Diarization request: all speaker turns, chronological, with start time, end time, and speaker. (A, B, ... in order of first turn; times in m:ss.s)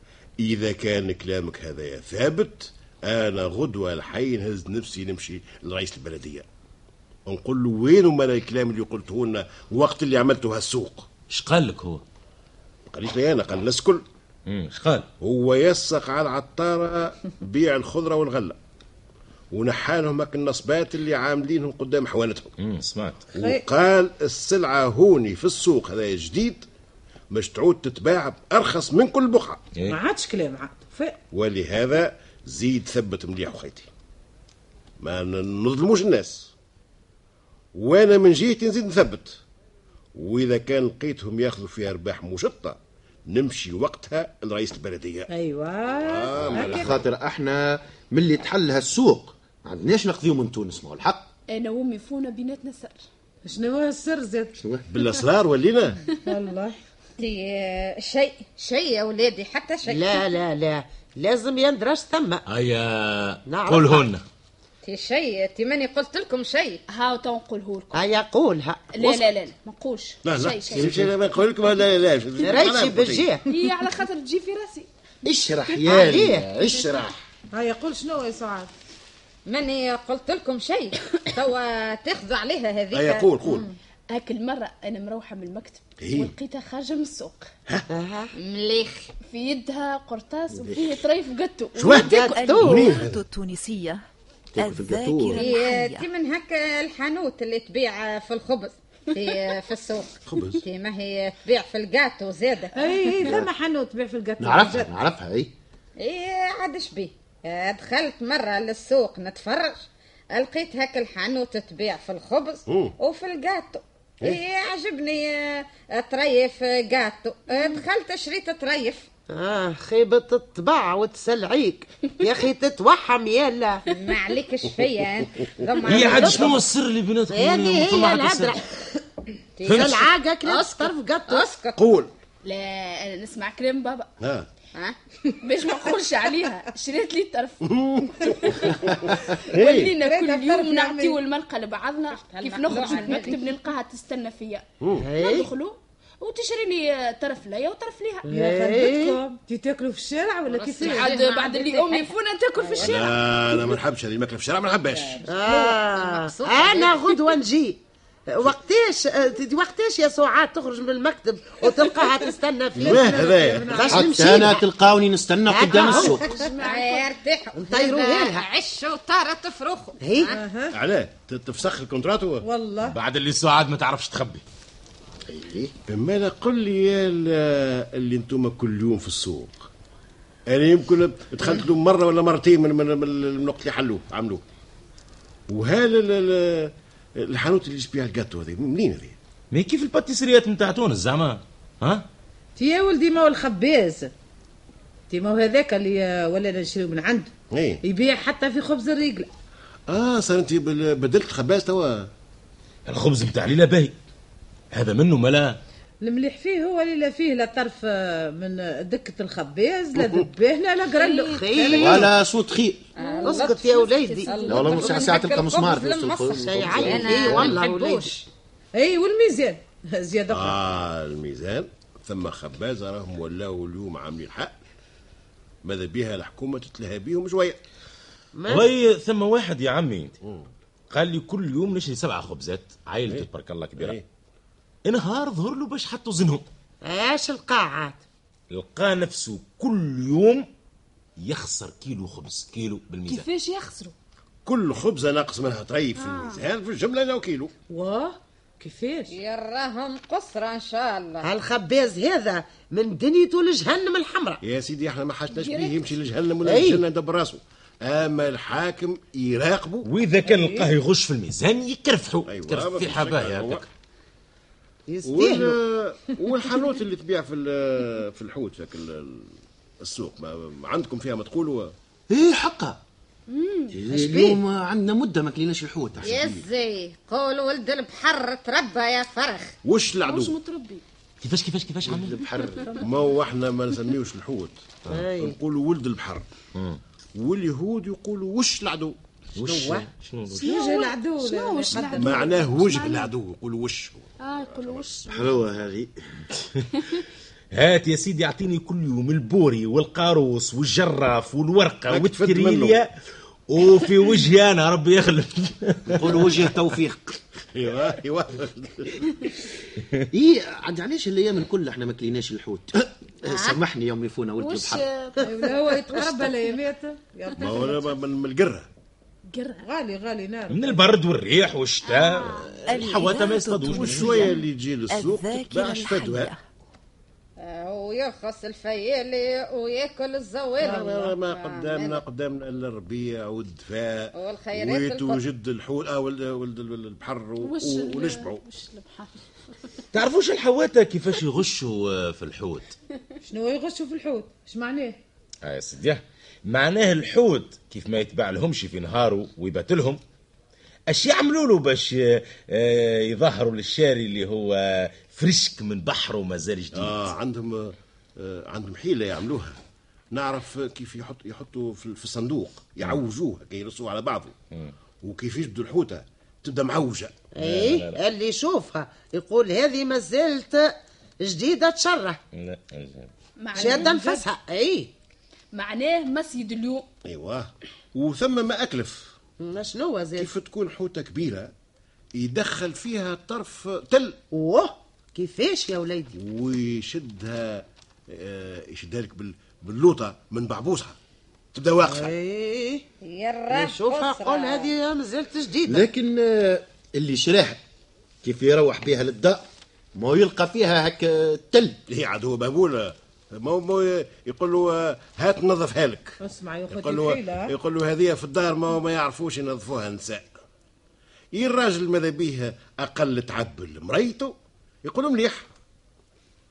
0:00.4-0:06.4 A
0:07.3-0:11.1 A
0:11.3-0:12.0 B
0:12.9-0:14.0 A
0:14.4-0:15.1 B
0:15.2-0:18.6 A
0:19.5-0:22.5 A
0:22.6-0:23.3 B
0:23.3-0:26.7 A
0:23.3-0:23.6 C
0:27.3-0:29.6 A
0:29.9-0:31.2 C
0:31.3-0:33.9 A
0:35.0-0:36.5 A
0:37.7-0:39.4 A
0:40.1-0:45.3 A
0:45.3-0:46.9 C
0:46.0-0:47.0 A
0:46.4-0:51.3 D
0:51.5-0:53.0 E
0:53.4-0:54.6 C
0:54.6-0:54.9 D
0:54.9-0:56.0 A
0:56.2-0:56.8 C
0:57.2-1:00.2 F
0:59.8-1:02.4 G
1:02.5-1:04.2 B
1:03.4-1:04.1 G
1:04.8-1:06.8 F
1:06.9-1:08.1 E
1:07.9-1:09.2 G
1:08.9-1:11.0 E
1:10.2-1:13.3 A
1:12.4-1:13.4 G
1:13.5-1:14.9 E
1:15.2-1:17.2 D
1:15.8-1:16.4 G
1:17.5-1:18.7 C
1:19.5-1:23.3 F
1:22.9-1:23.7 A
1:24.1-1:27.5 E
1:26.0-1:26.3 A
1:27.9-1:28.3 G
1:28.3-1:29.1 F
1:29.3-1:32.4 E
1:31.8-1:33.2 A
1:32.0-1:32.9 G
1:32.2-1:34.0 H
1:34.6-1:35.4 D
1:34.6-1:36.1 H
1:35.4-1:43.3 F
1:40.3-1:40.6 A
1:42.8-1:44.9 C
1:44.4-1:45.5 D
1:46.0-1:49.8 F
1:50.3-1:59.1 F
1:52.7-1:52.9 A
1:59.3-2:03.8 G
2:03.9-2:06.6 F
2:05.8-2:08.6 B
2:05.9-2:06.6 G
2:07.3-2:08.9 G
2:09.6-2:11.8 F
2:09.7-2:10.1 B
2:09.7-2:11.5 G
2:11.8-2:12.1 A
2:12.4-2:14.1 E
2:14.2-2:14.5 A
2:14.8-2:15.4 F
2:15.4-2:28.2 E
2:17.6-2:19.9 A
2:20.0-2:21.2 C
2:22.1-2:23.5 F
2:24.8-2:25.1 A
2:25.0-2:25.5 G
2:28.2-2:29.2 G
2:28.3-2:31.1 C
2:30.4-2:33.7 F
2:30.8-2:33.2 E
2:32.8-2:35.3 A
2:34.9-2:37.0 F
2:35.3-2:44.6 G
2:42.8-2:44.1 A
2:42.8-2:44.1 C
2:43.9-2:46.2 D
2:45.5-2:46.2 G
2:45.9-2:47.1 E
2:45.9-2:50.4 F
2:47.5-2:48.4 G
2:50.0-2:50.3 G
2:50.3-2:50.8 C
2:50.7-2:52.4 A
2:52.4-2:53.0 C
2:52.8-2:54.4 B
2:55.3-2:55.7 D
2:55.9-2:59.7 A
3:00.5-3:04.4 A
3:05.5-3:09.2 A
3:09.5-3:12.0 B
3:12.6-3:14.1 C
3:15.1-3:17.3 C
3:17.5-3:17.8 A
3:17.8-3:19.3 C
3:19.9-3:22.1 A
3:22.9-3:23.9 B
3:24.7-3:25.6 B
3:26.0-3:32.1 C
3:31.2-3:32.1 G
3:31.8-3:32.8 D
3:33.0-3:38.1 F
3:33.0-3:35.2 E
3:33.2-3:34.9 G
3:34.5-3:37.6 D
3:36.3-3:38.3 G
3:38.7-3:40.6 C
3:40.3-3:44.6 A
3:45.6-3:47.6 A
3:48.3-3:48.7 G
3:48.4-3:50.2 B
3:50.9-3:54.0 B
3:53.8-3:54.0 A
3:54.8-3:56.4 B
3:56.8-3:58.0 G
3:58.5-4:00.5 B
4:01.2-4:03.2 B
4:03.1-4:03.9 E
4:04.4-4:07.5 A
4:06.0-4:06.4 E
4:07.7-4:09.2 C
4:09.1-4:11.3 F
4:11.2-4:14.4 G
4:14.4-4:19.9 A
4:15.3-4:15.9 E
4:16.4-4:16.8 G
4:19.8-4:23.7 B
4:20.2-4:20.7 C
4:22.3-4:23.6 A
4:24.9-4:25.6 G
4:25.0-4:31.7 A
4:32.1-4:32.8 D
4:33.3-4:33.8 E
4:33.7-4:36.4 D
4:33.9-4:34.4 G
4:36.0-4:39.5 F
4:39.6-4:40.3 A
4:40.0-4:40.8 E
4:41.2-4:42.2 B
4:41.8-4:42.8 D
4:42.8-4:46.3 A
4:44.9-4:45.3 G
4:47.1-4:49.0 A
4:49.4-4:49.9 G
4:49.4-4:50.6 B
4:50.3-4:53.1 E
4:50.4-4:52.2 C
4:51.8-4:55.0 A
4:54.2-4:55.4 E
4:55.1-4:56.2 D
4:57.5-5:02.9 B
5:01.9-5:02.8 A
5:03.5-5:06.5 B
5:05.9-5:07.2 D
5:07.5-5:09.1 A
5:10.1-5:14.9 D
5:13.2-5:13.6 F
5:14.4-5:15.2 E
5:15.2-5:17.8 C
5:17.3-5:18.7 A
5:19.3-5:19.6 E
5:19.6-5:20.9 C
5:20.5-5:24.3 B
5:21.8-5:22.5 E
5:22.7-5:26.4 H
5:23.7-5:26.3 A
5:27.4-5:32.0 F
5:30.6-5:38.4 A
5:34.1-5:35.2 F
5:37.4-5:39.3 E
5:39.9-5:42.7 B
5:43.2-5:45.0 C
5:45.4-5:50.0 B
5:50.9-5:57.1 B
5:56.8-5:59.6 A
6:00.1-6:04.4 A
6:05.0-6:07.1 A
6:07.4-6:12.2 G
6:07.4-6:08.0 B
6:12.3-6:13.1 B
6:13.4-6:14.0 E
6:13.5-6:14.2 C
6:13.5-6:14.9 G
6:15.5-6:16.9 E
6:17.0-6:19.1 A
6:19.4-6:20.3 G
6:20.2-6:21.5 A
6:22.1-6:24.2 A
6:24.3-6:26.1 G
6:26.1-6:31.0 A
6:31.5-6:32.1 A
6:31.8-6:32.8 G
6:33.0-6:34.8 F
6:33.5-6:35.8 G
6:35.6-6:37.6 D
6:38.2-6:41.8 D
6:41.9-6:46.2 A
6:46.2-6:47.5 C
6:46.7-6:50.3 A
6:51.3-6:55.5 A